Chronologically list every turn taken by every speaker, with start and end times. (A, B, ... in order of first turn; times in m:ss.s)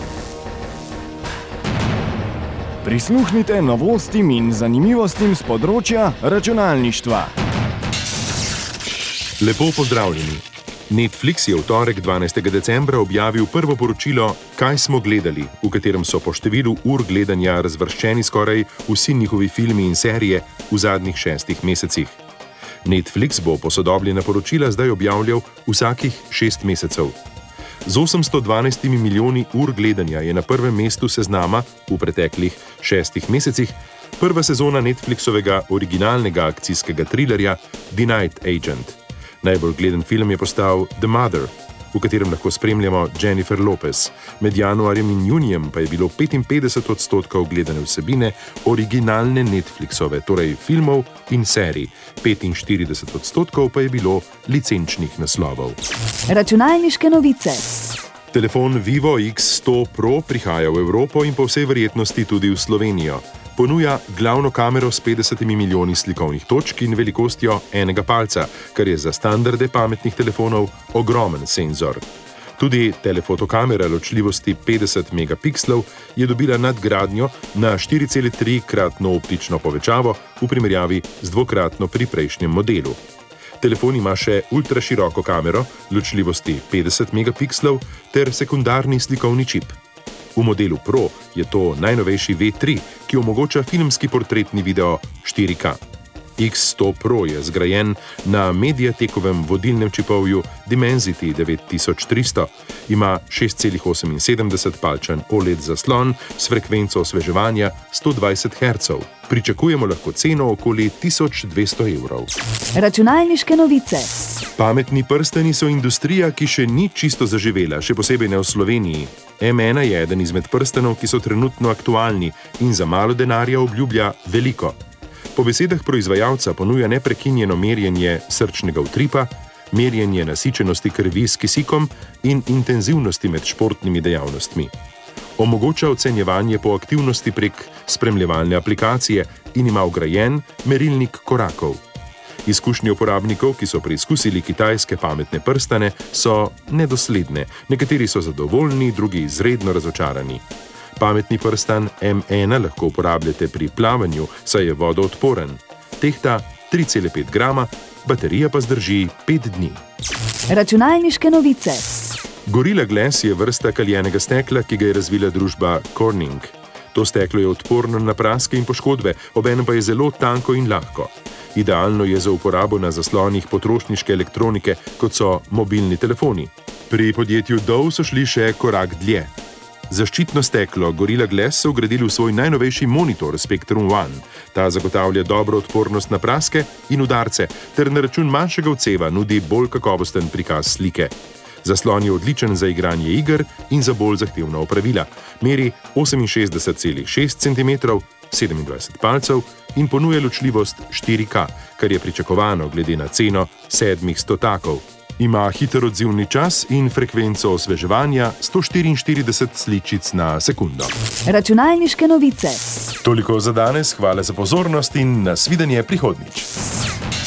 0:02.8-0:07.3 A
0:09.4-0:22.2 B
0:22.8-0:27.2 B
0:27.8-0:55.8 B
0:56.3-0:57.7 C
0:58.3-1:12.0 B
1:12.6-1:23.0 B
1:23.6-1:29.8 B
1:30.4-1:35.8 B
1:36.4-1:52.3 B
1:52.7-1:54.1 C
1:54.6-2:04.8 B
2:05.3-2:14.7 B
2:15.4-2:21.8 B
2:22.4-2:30.4 B
2:31.0-2:39.8 B
2:40.5-2:41.9 C
2:42.5-2:59.3 B
2:59.9-3:30.9 B
3:31.2-3:32.6 C
3:33.0-3:36.5 B